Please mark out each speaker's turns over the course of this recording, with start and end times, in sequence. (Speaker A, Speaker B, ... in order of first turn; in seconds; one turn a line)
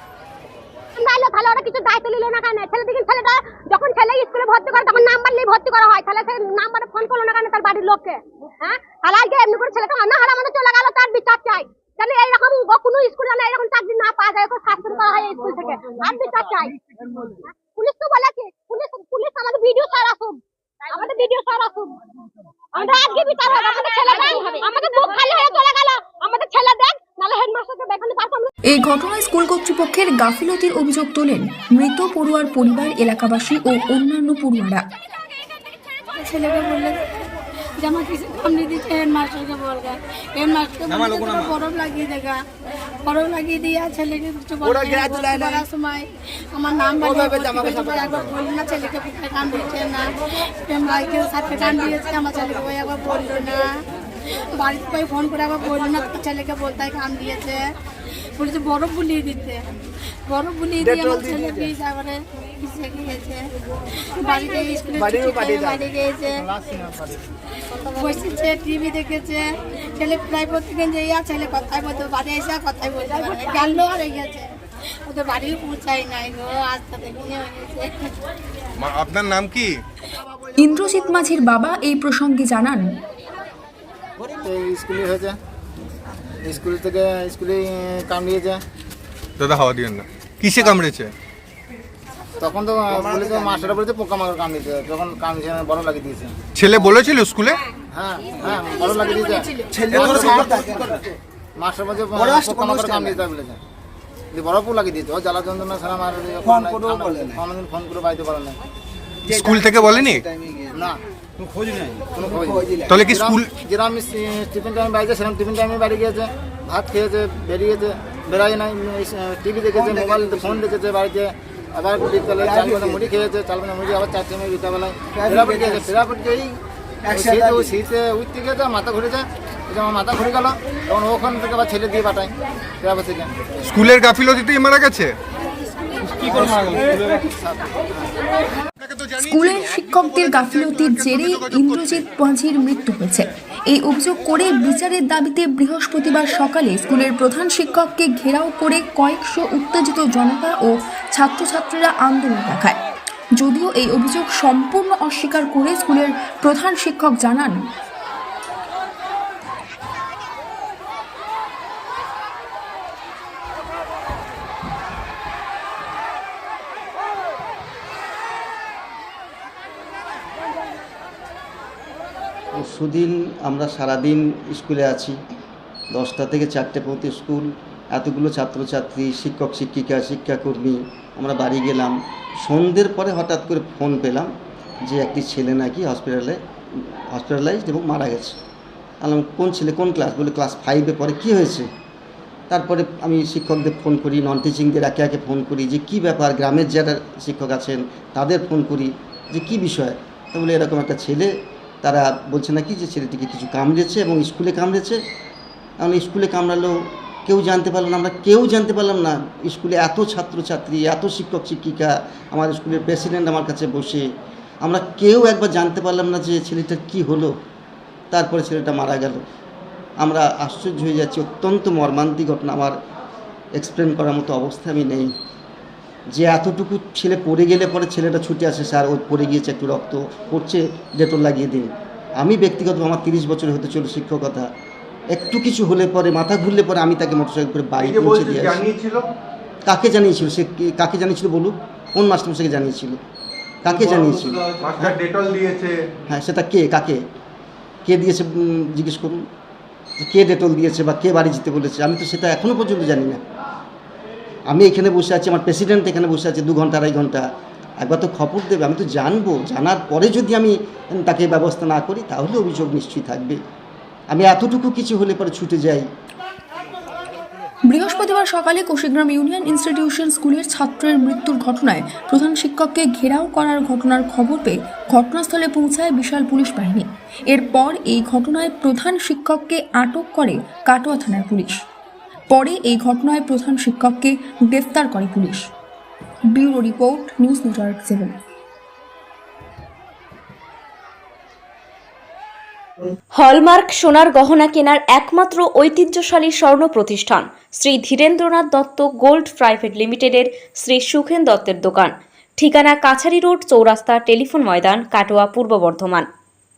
Speaker A: 1.0-16.7
Speaker A: 17.7-22.0
Speaker A: 22.7-28.5
Speaker B: 28.7-34.8
Speaker C: 36.2-37.0
Speaker C: 37.8-42.4
Speaker C: 43.0-50.0
Speaker C: 50.7-53.6
Speaker C: 54.5-57.6
Speaker C: 58.4-59.6
Speaker C: 60.3-63.4
Speaker C: 64.2-66.3
Speaker D: 66.3-67.3
Speaker C: 68.0-69.4
Speaker C: 70.0-74.5
Speaker C: 75.1-78.1
Speaker E: 78.8-79.8
Speaker B: 80.6-82.8
Speaker D: 84.4-85.3
Speaker D: 86.4-88.6
Speaker E: 89.4-91.1
Speaker D: 92.4-96.3
Speaker E: 96.5-97.6
Speaker D: 97.9-100.9
Speaker D: 101.6-103.6
Speaker D: 104.3-108.6
Speaker E: 109.3-110.2
Speaker D: 110.7-111.0
Speaker D: 112.1-126.5
Speaker E: 112.9-113.5
Speaker D: 127.1-133.3
Speaker E: 133.6-135.1
Speaker E: 136.1-136.8
Speaker D: 136.3-138.1
Speaker E: 138.8-142.0
Speaker B: 139.2-152.8
Speaker B: 153.4-157.6
Speaker F: 172.5-175.2
Speaker F: 175.9-184.3
Speaker F: 184.9-188.4
Speaker F: 189.0-191.7
Speaker F: 192.5-201.3
Speaker F: 201.8-205.0
Speaker F: 205.8-206.7
Speaker F: 207.2-214.1
Speaker F: 214.6-217.3
Speaker F: 218.1-219.2
Speaker F: 220.0-222.8
Speaker F: 223.6-225.1
Speaker F: 226.1-234.5
Speaker F: 235.1-238.6
Speaker E: 237.8-239.1
Speaker F: 239.7-243.0
Speaker F: 243.6-245.0
Speaker E: 243.7-245.7
Speaker F: 246.1-247.0
Speaker F: 247.8-249.2
Speaker F: 250.0-253.2
Speaker F: 254.5-257.2
Speaker F: 257.8-263.4
Speaker F: 264.1-265.8
Speaker B: 267.7-281.6
Speaker B: 282.3-285.5
Speaker B: 286.3-288.1
Speaker G: 293.1-306.1